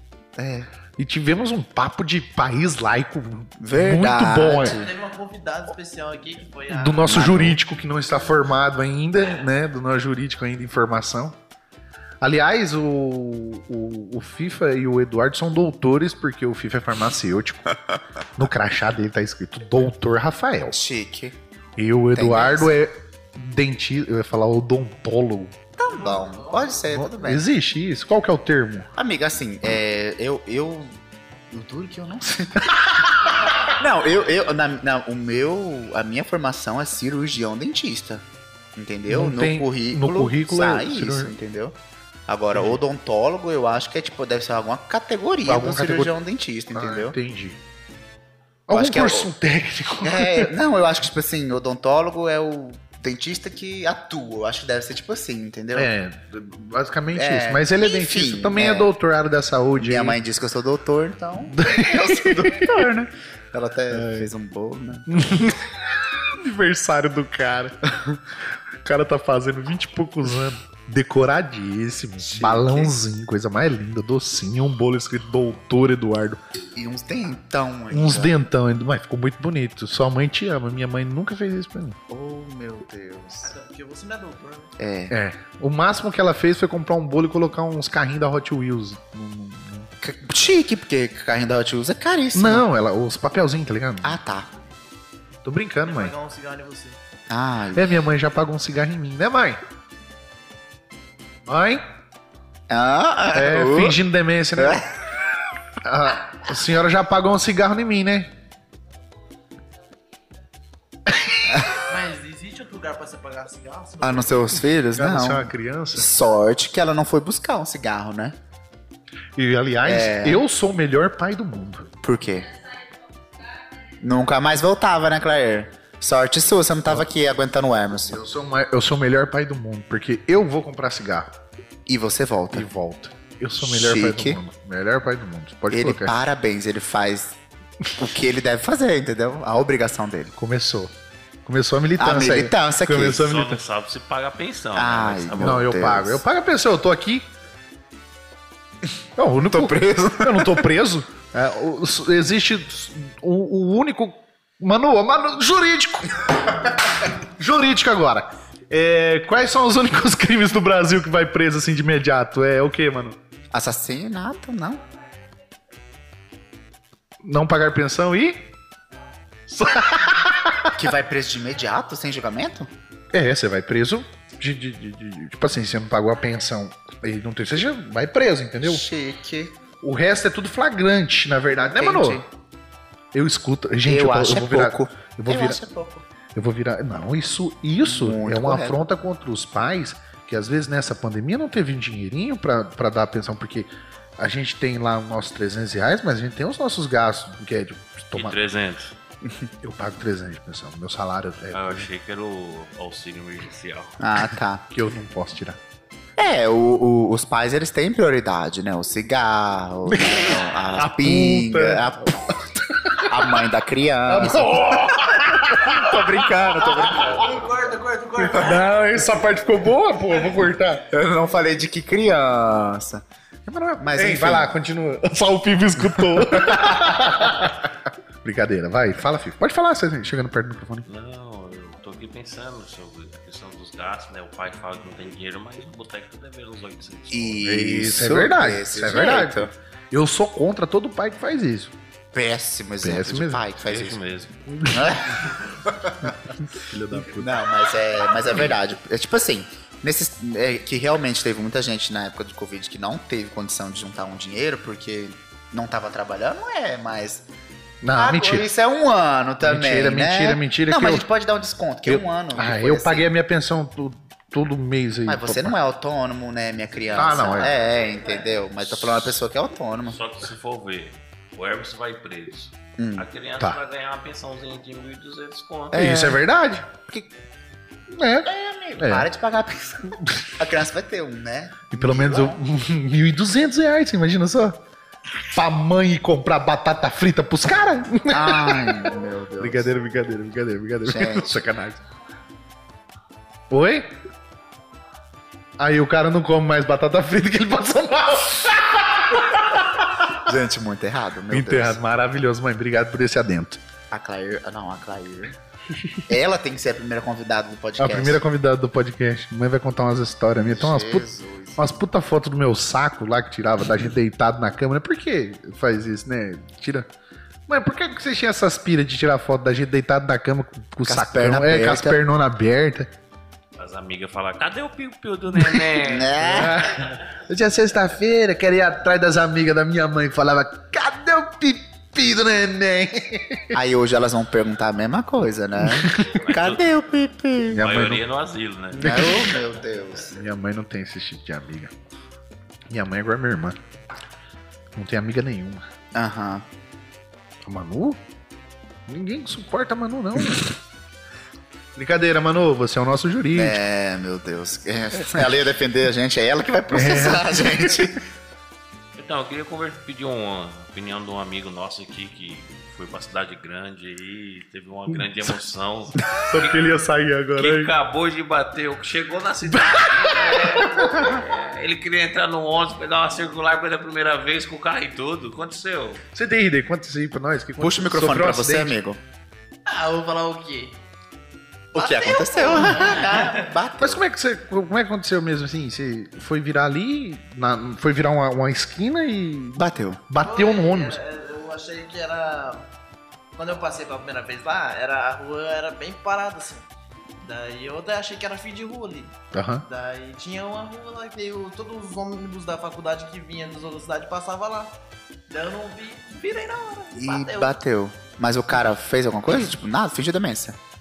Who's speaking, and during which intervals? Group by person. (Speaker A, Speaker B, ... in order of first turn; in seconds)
Speaker A: 0.4-0.7, 3.6-4.9, 7.0-7.6, 20.7-21.4, 22.1-22.7, 25.8-27.5, 29.0-31.0, 31.5-47.2, 48.7-49.3, 50.0-55.9, 57.1-58.9, 59.8-65.2, 72.2-72.9, 76.7-78.4, 82.1-83.5, 84.8-85.2, 90.0-92.7, 94.0-94.5, 97.3-98.0, 102.7-104.0, 104.6-104.9, 111.5-111.8, 114.0-118.4, 119.8-120.4, 122.0-122.6, 124.0-128.2, 131.9-132.7, 133.6-134.4, 135.7-137.4, 137.9-140.3, 142.0-143.3, 144.8-146.2, 149.5-150.6, 163.5-164.8, 170.7-172.7, 178.6-179.6, 181.7-182.3, 183.9-186.1, 187.8-188.8, 204.0-204.7, 206.2-212.3, 213.0-217.4, 220.9-223.0, 223.8-224.5, 225.8-227.5, 237.1-239.5, 242.1-244.0, 244.7-246.2, 247.1-257.3, 257.9-263.1, 265.1-270.0, 272.8-273.1, 275.7-276.2, 278.3-282.4, 288.1-289.7, 290.9-291.4, 300.1-301.8, 303.9-305.4, 306.1-308.2, 310.4-311.6, 320.9-322.0, 325.8-326.6, 333.5-337.6, 338.7-340.2, 345.9-346.5, 353.3-358.0, 377.6-379.0, 381.7-384.0, 389.6-390.0, 406.9-410.6
Speaker B: 1.0-4.9, 6.7-11.4, 12.2-17.8, 18.4-20.8, 21.8-25.6, 26.9-28.9, 39.1-41.4, 45.5-46.1, 46.7-47.6, 48.7-50.5, 55.7-60.2, 61.5-62.9, 63.9-64.3, 65.1-68.2, 68.8-76.4, 77.9-82.0, 85.1-89.9, 92.3-94.2, 95.4-96.1, 97.7-99.6, 101.5-101.8, 103.3-104.8, 105.8-108.3, 111.1-111.7, 115.0-116.1, 119.4-121.9, 128.1-131.3, 132.5-136.2, 140.4-140.9, 141.4-143.6, 145.4-147.2, 149.2-163.2, 167.2-168.5, 169.5-170.8, 173.1-178.8, 179.8-182.2, 183.1-185.6, 186.3-198.4, 199.6-201.9, 204.7-205.6, 209.9-213.4, 214.1-217.2, 218.2-220.9, 223.5-227.7, 228.2-230.9, 237.4-241.7, 242.8-243.4, 244.5-245.4, 246.0-247.5, 257.8-258.5, 259.4-261.1, 261.9-265.6, 266.9-267.6, 275.7-276.7, 277.9-279.1, 279.9-280.3, 281.7-284.6, 285.3-291.8, 293.5-293.9, 295.6-300.1, 301.3-303.6, 307.8-316.9, 317.5-322.9, 326.2-333.6, 335.6-336.2, 337.5-338.0, 338.8-339.3, 340.1-341.7, 342.7-343.6, 344.8-345.6, 347.5-348.0, 348.9-350.6, 351.8-353.6, 356.7-357.8, 366.3-367.7, 369.5-371.1, 376.1-378.8, 383.8-391.0, 399.3-399.6
Speaker C: 4.5-7.2, 25.9-26.9, 83.4-84.7, 95.8-97.0, 111.8-114.4, 217.0-218.7, 379.7-380.8, 381.8-383.5, 390.2-392.7, 393.4-396.7, 397.2-404.8, 405.3-407.6
Speaker D: 143.1-145.7, 198.1-198.9, 201.5-204.3, 230.9-237.6, 243.6-244.4, 268.6-269.2, 269.9-275.8, 323.6-326.9, 336.0-336.8, 337.5-339.4, 358.9-366.7, 367.4-376.0